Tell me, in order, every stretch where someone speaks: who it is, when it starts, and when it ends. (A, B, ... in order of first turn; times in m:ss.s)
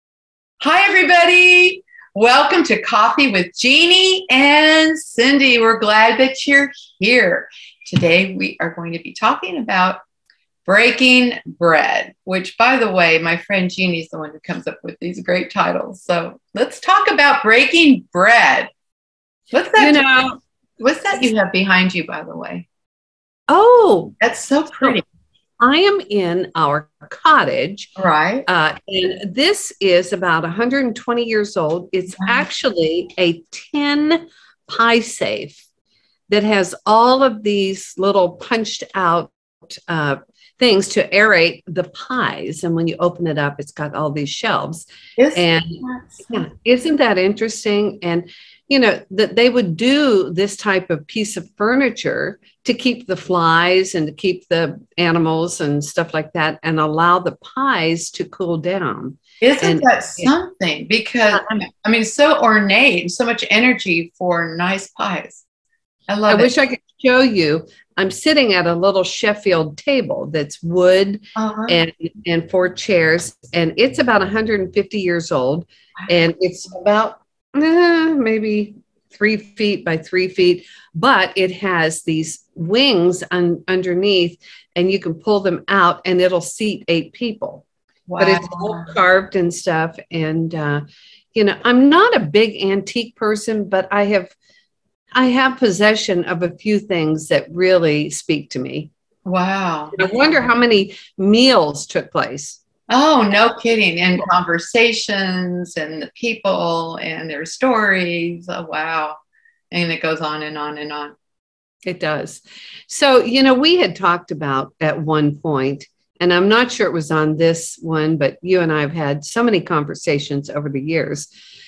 0:00.6-0:10.0 A
0:10.6-0:18.7 A
0:19.5-0:20.0 A
0:19.8-0:20.4 B
0:20.8-0:22.6 A
0:23.5-0:24.1 B
0:24.2-0:25.0 A
0:24.7-0:25.0 B
0:25.6-0:27.9 B
0:28.0-0:28.5 A
0:28.5-0:35.6 B
0:32.2-0:32.5 A
0:36.3-1:00.3 B
0:45.2-0:46.4 A
0:59.4-1:05.4 A
1:06.1-1:06.5 A
1:06.3-1:27.6 B
1:11.4-1:11.8 A
1:28.1-1:28.9 A
1:28.2-1:30.8 B
1:31.3-1:34.3 B
1:35.1-1:38.9 B
1:39.2-1:40.0 A
1:39.9-1:42.6 B
1:42.9-1:51.1 A
1:51.8-2:01.3 B